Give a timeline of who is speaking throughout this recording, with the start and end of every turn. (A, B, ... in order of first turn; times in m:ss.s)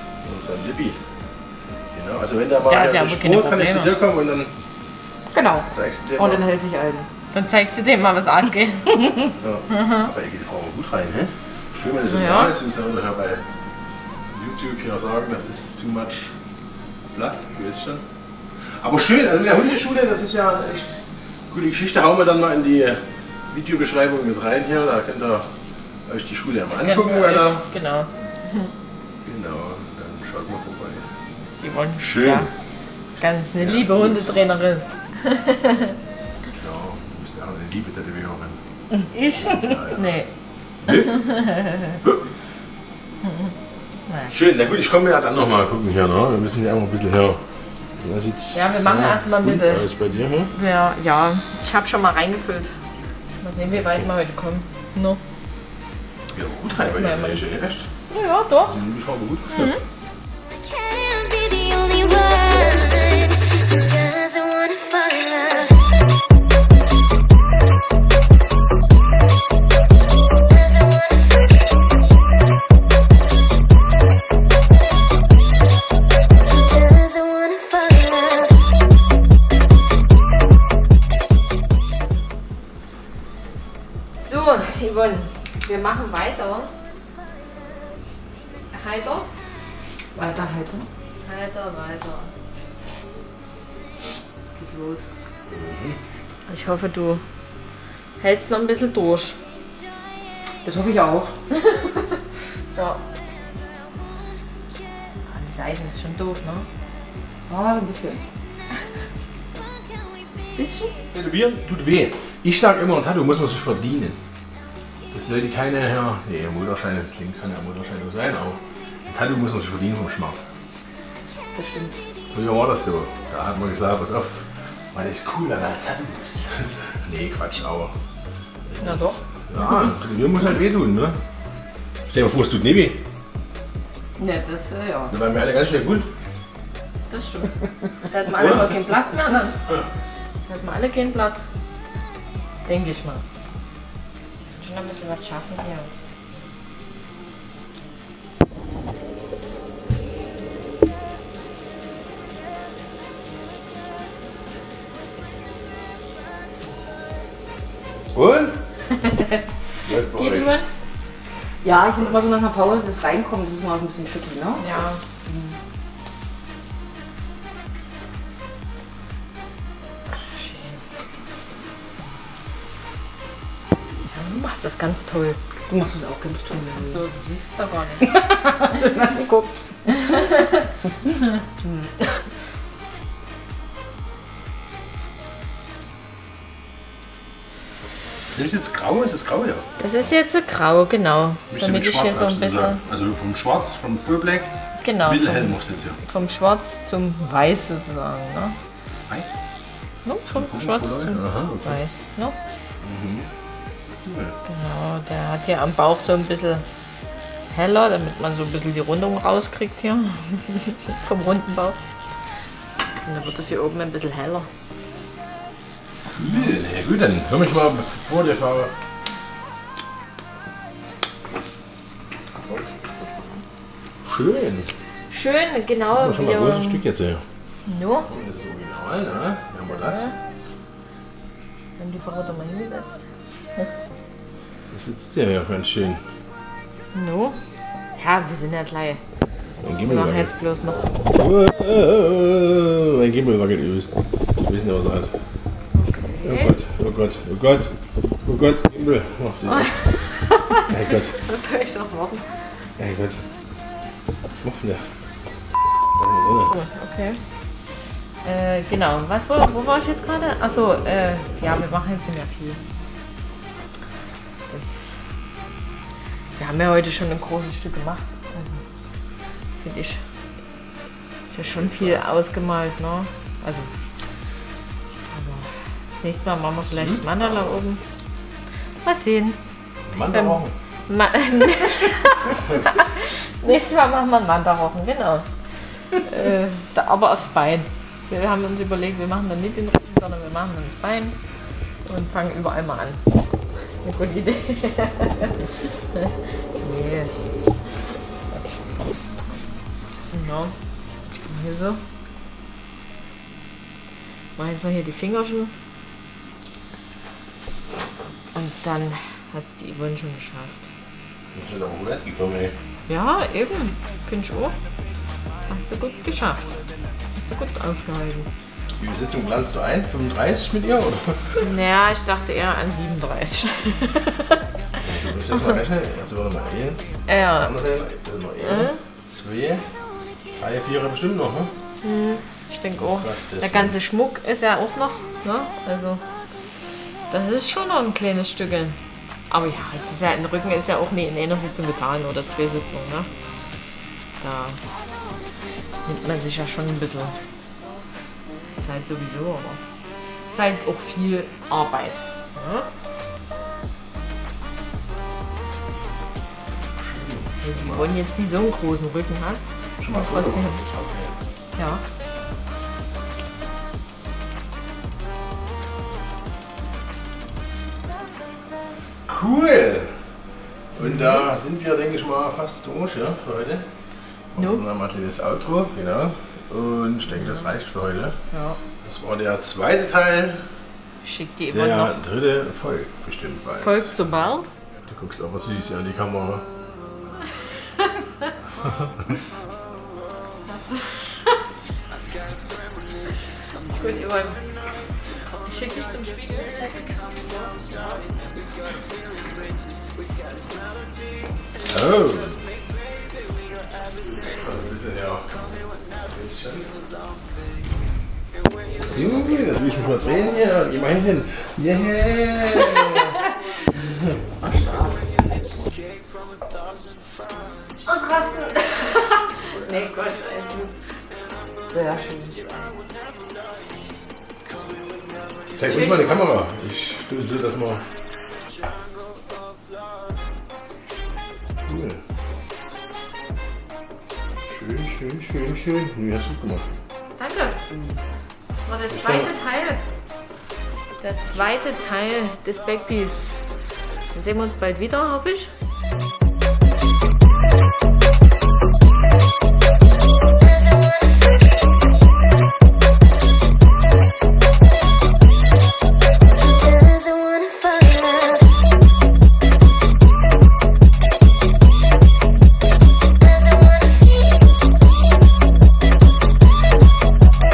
0:00.2-0:01.0 A
0:01.9-0:04.5 A
0:02.7-0:03.9 B
0:05.3-0:07.1 C
0:05.7-0:06.4 A
0:07.3-0:09.1 B
0:09.4-0:13.4 A
0:09.7-0:10.1 B
0:12.1-0:12.5 B
0:14.3-0:16.4 A
0:17.1-0:18.0 A
0:18.8-0:25.5 A
0:26.1-0:27.6 A
0:26.8-0:28.7 B
0:29.2-0:31.1 A
0:31.6-0:32.5 B
0:32.0-0:32.5 A
0:33.2-0:36.0 B
0:33.4-0:34.4 A
0:36.5-0:38.6 A
0:39.1-0:40.3 B
0:39.3-0:40.2 A
0:40.8-0:41.4 A
0:40.9-0:42.0 B
0:42.0-0:42.3 A
0:43.2-0:43.5 B
0:44.1-0:44.3 B
0:44.3-0:47.4 A
0:48.0-0:50.5 A
0:48.5-0:49.9 B
0:50.5-0:52.7 B
0:53.4-0:55.2 B
0:56.3-0:57.9 A
0:56.8-0:57.4 B
0:58.1-0:58.8 B
0:58.6-0:59.8 A
0:59.5-0:59.8 B
1:00.6-1:05.8 D
1:10.5-1:11.5 D
1:16.7-1:18.6 D
1:24.2-1:26.7 B
1:28.7-1:29.3 B
1:30.2-1:30.9 C
1:31.2-1:32.3 B
1:34.6-1:35.1 B
1:35.5-1:36.0 A
1:36.5-1:37.2 B
1:38.2-1:39.4 B
1:40.6-1:41.4 C
1:41.6-1:42.2 B
1:42.7-1:43.0 B
1:45.3-1:46.7 B
1:47.5-1:48.2 C
1:50.6-1:51.0 B
1:51.1-1:54.2 A
1:55.1-2:00.5 A
2:01.6-2:02.0 C
2:02.3-2:07.9 A
2:08.7-2:11.2 A
2:08.8-2:09.2 B
2:12.1-2:13.0 A
2:14.2-2:15.1 B
2:15.1-2:16.1 A
2:17.1-2:19.8 B
2:18.3-2:18.8 A
2:20.5-2:21.4 B
2:22.6-2:23.2 B
2:24.6-2:25.9 B
2:38.1-2:38.6 A
2:38.9-2:39.4 B
2:39.8-2:40.6 A
2:40.0-2:40.7 B
2:41.6-2:45.6 C
2:44.6-2:45.0 B
2:50.1-2:50.8 B
2:54.1-2:55.4 B
2:55.7-2:57.0 C
2:56.8-2:58.2 B
2:58.0-3:00.2 C
3:00.0-3:00.7 B
3:01.6-3:02.3 B
3:08.3-3:09.9 A
3:09.8-3:12.8 B
3:11.5-3:14.5 A
3:14.8-3:18.6 B
3:15.0-3:16.0 A
3:19.1-3:19.4 A
3:20.0-3:22.4 B
3:20.3-3:21.8 A
3:22.8-3:23.3 A
3:24.0-3:24.4 A
3:24.5-3:26.6 B
3:27.5-3:31.8 B
3:33.0-3:34.5 B
3:36.1-3:38.7 A
3:44.0-3:44.7 A
3:45.1-3:46.8 B
3:45.8-3:47.2 A
3:47.7-3:48.1 B
3:48.0-3:50.1 A
3:49.7-3:50.1 B
3:51.8-3:53.1 B
3:54.7-3:56.0 A
3:56.9-3:57.4 B
3:57.9-3:59.0 B
3:59.6-4:00.3 A
3:59.8-4:00.9 B
4:01.1-4:05.1 A
4:05.7-4:06.5 B
4:06.2-4:07.7 A
4:08.2-4:09.8 A
4:09.5-4:12.4 B
4:10.6-4:11.2 A
4:12.8-4:13.2 A
4:14.4-4:14.8 A
4:16.0-4:16.5 A
4:16.4-4:17.2 B
4:18.2-4:22.6 B
4:24.5-4:25.0 B
4:26.4-4:28.6 B
4:29.6-4:30.0 B
4:31.3-4:33.7 B
4:31.4-4:32.0 A
4:35.1-4:37.8 B
4:36.7-4:37.6 A
4:38.8-4:39.4 B
4:39.9-4:40.5 A
4:40.1-4:45.3 B
4:45.9-4:51.2 B
4:51.8-4:53.0 B
4:53.8-4:57.2 B
5:00.1-5:00.6 B
5:01.2-5:01.8 B
5:04.4-5:05.5 B
5:08.3-5:10.7 B
5:11.3-5:12.6 A
5:12.9-5:14.6 B
5:15.5-5:16.6 B
5:17.2-5:18.3 B
5:18.8-5:21.4 A
5:21.4-5:24.4 B
5:24.8-5:29.7 A
5:27.1-5:27.5 B
5:28.4-5:28.8 B
5:30.3-5:31.5 A
5:31.8-5:36.0 B
5:32.8-5:33.8 A
5:37.1-5:38.8 B
5:39.3-5:43.1 B
5:44.2-5:44.6 B
5:45.8-5:47.2 B
5:48.6-5:49.6 B
5:50.3-5:52.7 B
5:56.8-5:57.9 A
5:57.4-6:00.6 B
5:59.8-6:01.1 A
6:01.6-6:01.8 B
6:09.1-6:09.9 A
6:10.8-6:13.7 A
6:10.8-6:11.2 B
6:14.3-6:18.2 A
6:14.4-6:14.6 B
6:18.3-6:18.6 B
6:18.8-6:20.4 A
6:21.0-6:21.9 B
6:21.5-6:23.9 A
6:23.6-6:24.5 B
6:24.9-6:26.4 A
6:28.6-6:28.9 A
6:30.5-6:31.2 B
6:33.7-6:34.4 B
6:35.4-6:37.5 B
6:41.7-6:42.6 A
6:44.0-6:45.5 A
6:46.0-6:46.8 A
6:48.9-6:53.2 A
6:52.7-6:53.1 B
6:53.8-6:54.2 A
6:54.4-6:55.0 C
6:57.8-7:00.7 B
7:01.7-7:02.4 C
7:05.6-7:07.8 A
7:05.6-7:06.3 B
7:11.7-7:12.0 A
7:14.4-7:16.7 A
7:17.2-7:17.6 B
7:18.6-7:19.8 B
7:18.9-7:19.3 A
7:21.0-7:23.4 B
7:24.1-7:25.5 B
7:30.7-7:31.0 D
7:36.6-7:38.4 D
7:43.3-7:44.2 D